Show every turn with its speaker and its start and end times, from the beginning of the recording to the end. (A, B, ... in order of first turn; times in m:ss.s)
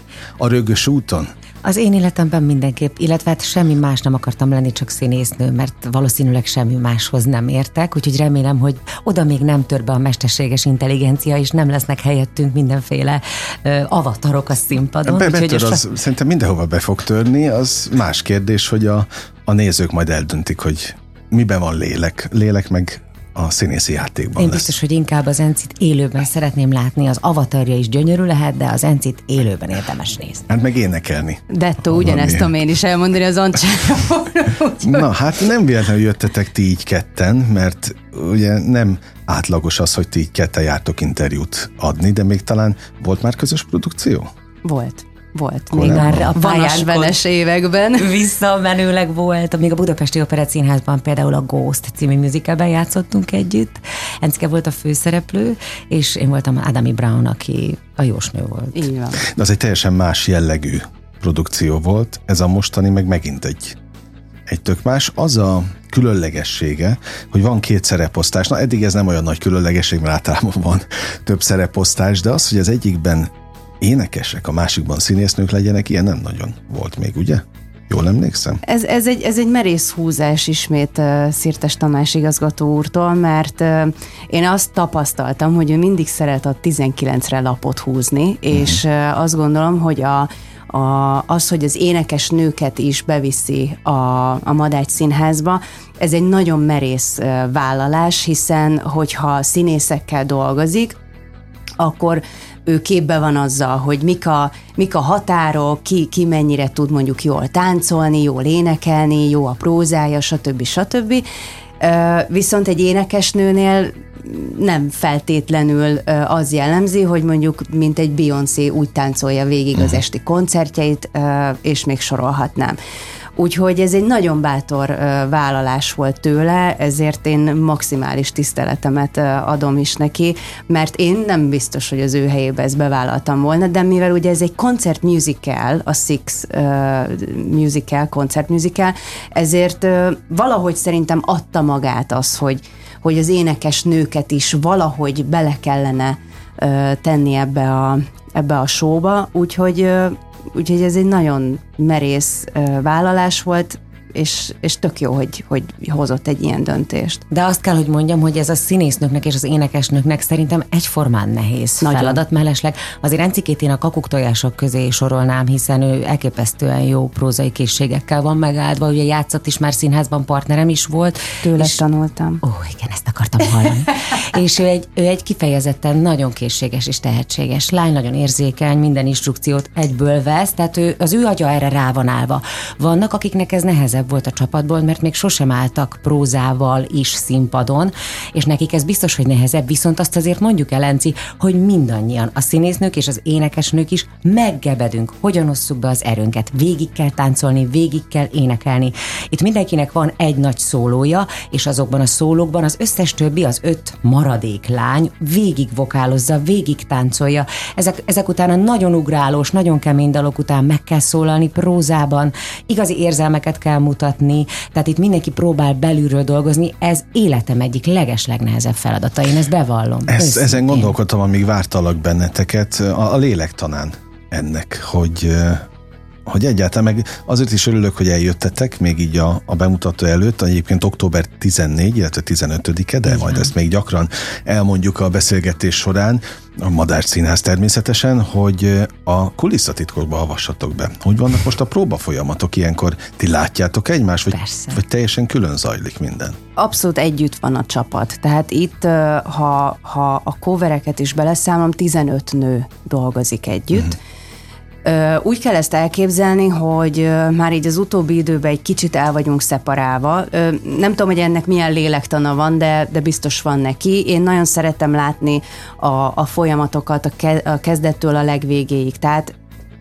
0:00.4-0:01.3 A
0:01.6-0:15.8 B
0:15.0-0:24.7 A
0:24.4-0:30.5 B
0:30.5-0:32.5 A
0:31.5-0:35.1 C
0:34.8-0:44.3 A
0:44.6-0:48.2 C
0:45.7-0:46.3 A
0:45.8-0:47.1 B
0:48.0-0:58.9 B
0:58.7-0:59.2 C
0:59.2-1:03.8 A
1:04.5-1:18.6 A
1:18.6-1:41.0 C
1:28.5-1:28.8 A
1:41.8-1:51.2 C
1:51.8-2:02.8 C
2:03.4-2:37.2 C
2:37.3-2:51.8 B
2:41.8-2:42.2 C
2:51.4-2:52.4 C
2:52.4-3:40.9 B
3:40.1-3:45.7 A
3:46.2-4:06.4 A
3:53.1-3:53.5 B
4:04.3-4:04.8 B
4:06.6-4:14.0 C
4:14.8-4:29.3 C